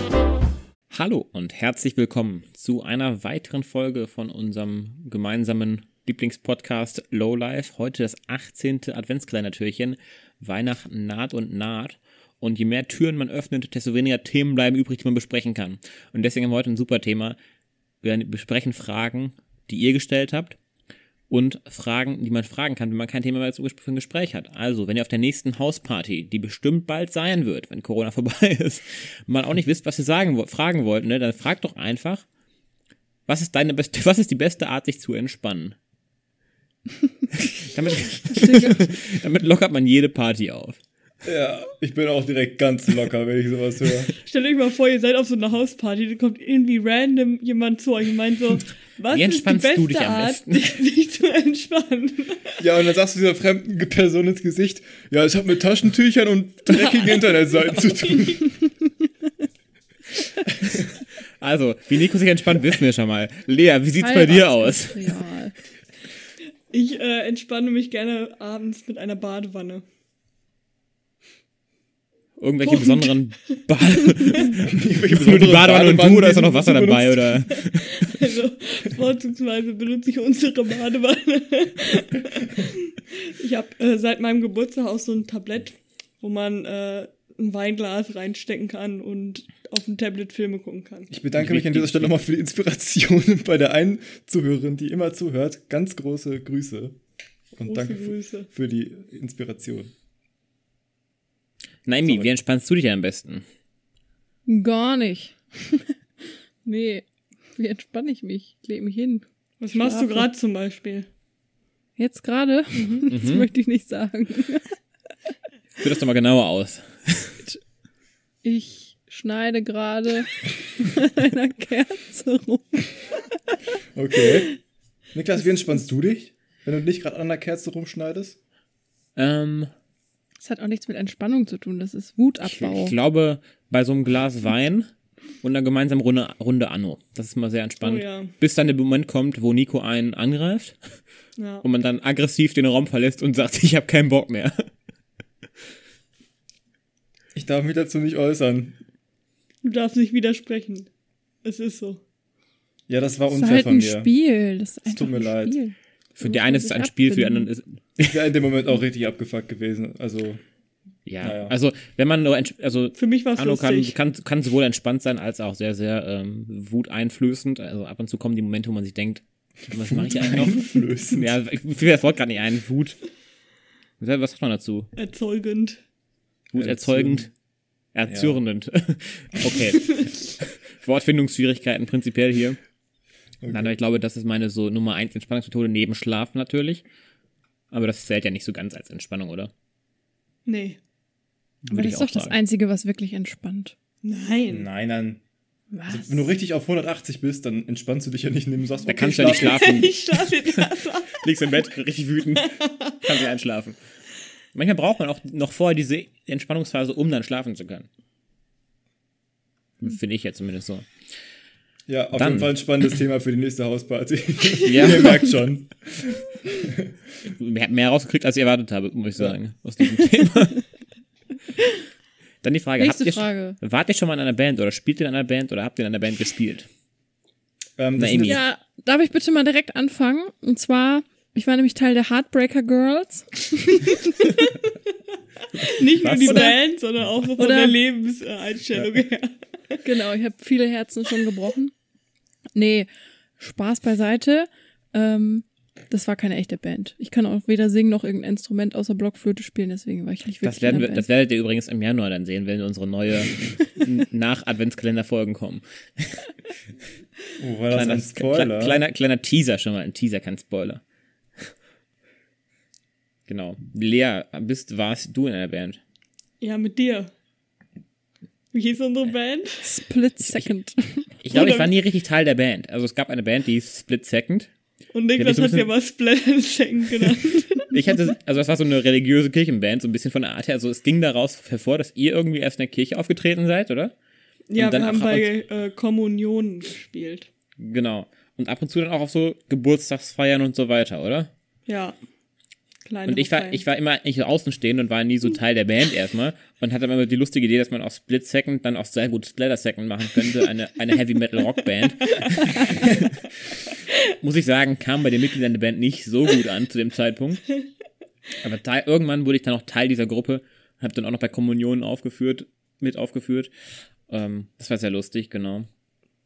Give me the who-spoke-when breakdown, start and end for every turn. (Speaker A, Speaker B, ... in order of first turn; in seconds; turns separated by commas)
Speaker A: 0.9-17.4, Speaker A: 18.0-20.6, Speaker A: 21.3-32.2, Speaker A: 33.3-35.8, Speaker A: 37.4-40.8, Speaker B: 38.3-38.9, Speaker C: 41.2-44.1, Speaker D: 44.2-52.6, Speaker A: 49.1-50.7, Speaker C: 52.6-58.5, Speaker D: 56.7-58.5, Speaker A: 61.4-65.2, Speaker B: 64.0-65.5, Speaker D: 66.7-69.8, Speaker A: 72.4-78.1, Speaker D: 72.6-73.3, Speaker C: 74.7-77.3, Speaker D: 77.9-91.1, Speaker C: 91.1-97.0, Speaker A: 91.3-92.3, Speaker C: 97.5-99.9, Speaker D: 97.7-98.5, Speaker A: 101.9-103.4, Speaker C: 102.0-102.3, Speaker B: 104.5-105.9, Speaker B: 106.6-107.0, Speaker B: 107.6-110.3, Speaker D: 109.6-111.1, Speaker B: 112.0-114.8, Speaker D: 112.8-113.1, Speaker A: 113.1-113.5, Speaker A: 115.8-117.4, Speaker B: 118.4-123.6, Speaker C: 124.0-124.5, Speaker C: 125.1-128.4, Speaker A: 129.2-129.7, Speaker B: 130.4-132.9, Speaker A: 132.4-134.9, Speaker A: 135.4-140.8, Speaker D: 137.8-138.3, Speaker D: 141.4-141.7, Speaker A: 141.6-144.6, Speaker C: 147.3-148.8, Speaker D: 149.6-150.9, Speaker D: 151.4-152.0, Speaker C: 152.9-154.2, Speaker B: 153.3-157.5, Speaker C: 154.9-155.6, Speaker A: 156.2-158.2, Speaker C: 158.0-160.4, Speaker A: 161.1-173.0, Speaker C: 161.2-161.6, Speaker D: 162.9-164.0, Speaker C: 169.8-171.3, Speaker A: 174.0-174.9, Speaker D: 175.0-175.8, Speaker A: 176.5-177.3, Speaker C: 176.6-177.3, Speaker A: 177.9-182.6, Speaker C: 178.1-178.4, Speaker C: 183.4-183.8, Speaker A: 183.5-186.8, Speaker A: 187.7-189.5, Speaker D: 190.5-190.8, Speaker A: 191.7-192.4, Speaker B: 191.7-193.8, Speaker D: 194.0-194.7, Speaker C: 194.5-195.2, Speaker B: 195.7-196.3, Speaker C: 195.9-199.9, Speaker A: 198.9-203.8, Speaker D: 199.2-201.7, Speaker D: 202.3-203.2, Speaker A: 204.5-207.9, Speaker A: 209.8-210.9, Speaker C: 211.9-216.9, Speaker A: 212.2-212.8, Speaker A: 214.7-215.2, Speaker A: 217.2-220.6, Speaker A: 222.4-226.7, Speaker B: 222.8-223.6, Speaker C: 227.8-228.4, Speaker A: 228.0-228.4, Speaker B: 228.2-234.1, Speaker D: 234.4-234.7, Speaker D: 235.6-239.8, Speaker A: 236.0-236.5, Speaker B: 236.3-236.6, Speaker B: 237.4-237.8, Speaker B: 239.8-241.7, Speaker B: 242.6-251.1, Speaker A: 250.4-256.3, Speaker C: 257.4-258.8, Speaker A: 257.7-260.8, Speaker A: 263.3-265.8, Speaker D: 266.4-267.1, Speaker D: 268.5-269.7, Speaker B: 269.6-271.1, Speaker A: 270.2-270.5, Speaker A: 271.2-274.5, Speaker D: 271.3-271.7, Speaker D: 274.9-277.8, Speaker A: 275.2-275.7, Speaker A: 277.7-283.9, Speaker D: 284.5-287.3, Speaker A: 284.6-285.3, Speaker A: 287.6-291.3, Speaker D: 291.7-292.0, Speaker D: 292.9-293.6, Speaker A: 293.1-303.1, Speaker A: 304.2-307.4, Speaker A: 308.4-313.5, Speaker A: 314.1-315.7